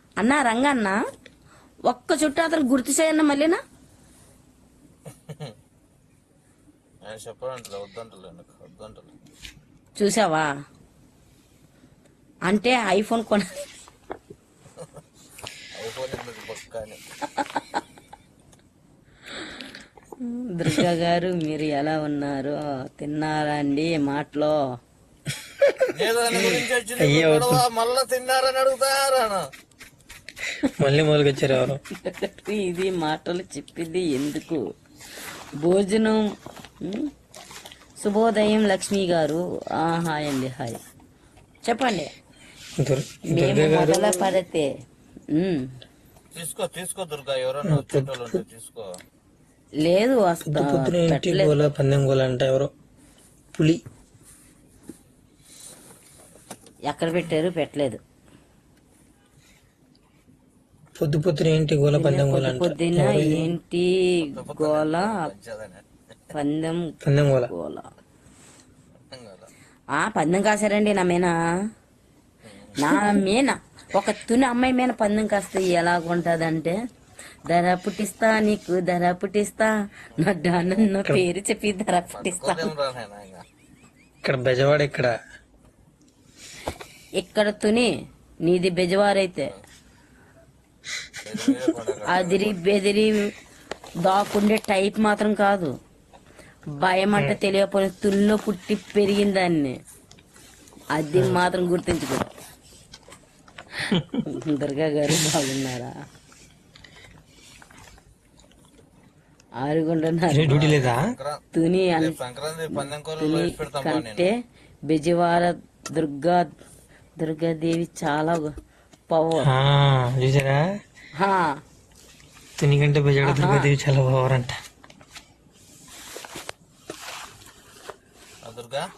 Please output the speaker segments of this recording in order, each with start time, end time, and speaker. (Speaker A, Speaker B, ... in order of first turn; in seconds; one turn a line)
Speaker A: 0.2-1.0
Speaker A: 1.9-3.6
Speaker B: 7.0-9.1
Speaker A: 10.0-10.5
Speaker A: 12.5-13.7
Speaker B: 15.7-17.0
Speaker A: 20.2-24.6
Speaker B: 25.9-29.4
Speaker C: 26.3-27.6
Speaker C: 30.8-31.8
Speaker A: 31.6-34.6
Speaker A: 35.6-36.2
Speaker A: 36.8-37.1
Speaker A: 38.0-40.8
Speaker A: 41.6-42.1
Speaker C: 42.8-44.3
Speaker A: 43.3-44.7
Speaker A: 45.3-45.7
Speaker B: 46.3-48.9
Speaker C: 47.6-48.4
Speaker A: 49.8-51.6
Speaker C: 50.5-52.7
Speaker C: 53.5-53.8
Speaker A: 56.9-58.0
Speaker C: 61.0-63.5
Speaker A: 61.9-65.2
Speaker B: 64.3-65.8
Speaker A: 66.3-66.9
Speaker C: 67.0-67.5
Speaker A: 67.5-67.9
Speaker B: 69.1-69.5
Speaker A: 70.0-71.3
Speaker B: 72.4-72.8
Speaker A: 72.8-76.8
Speaker A: 77.5-82.7
Speaker B: 80.2-80.9
Speaker B: 82.1-83.4
Speaker C: 84.2-85.1
Speaker A: 87.2-87.9
Speaker A: 88.4-89.5
Speaker B: 91.2-92.6
Speaker A: 92.1-93.3
Speaker A: 94.0-95.7
Speaker A: 96.7-99.7
Speaker A: 100.9-102.3
Speaker C: 103.9-104.2
Speaker A: 104.2-105.9
Speaker A: 109.6-110.6
Speaker C: 110.3-111.0
Speaker B: 110.5-111.4
Speaker A: 111.5-112.1
Speaker B: 112.0-114.3
Speaker A: 112.8-114.3
Speaker A: 114.9-116.5
Speaker A: 117.2-118.5
Speaker A: 119.1-119.5
Speaker C: 119.4-120.6
Speaker A: 121.2-121.5
Speaker C: 122.6-124.5
Speaker A: 123.2-123.7
Speaker B: 128.4-128.8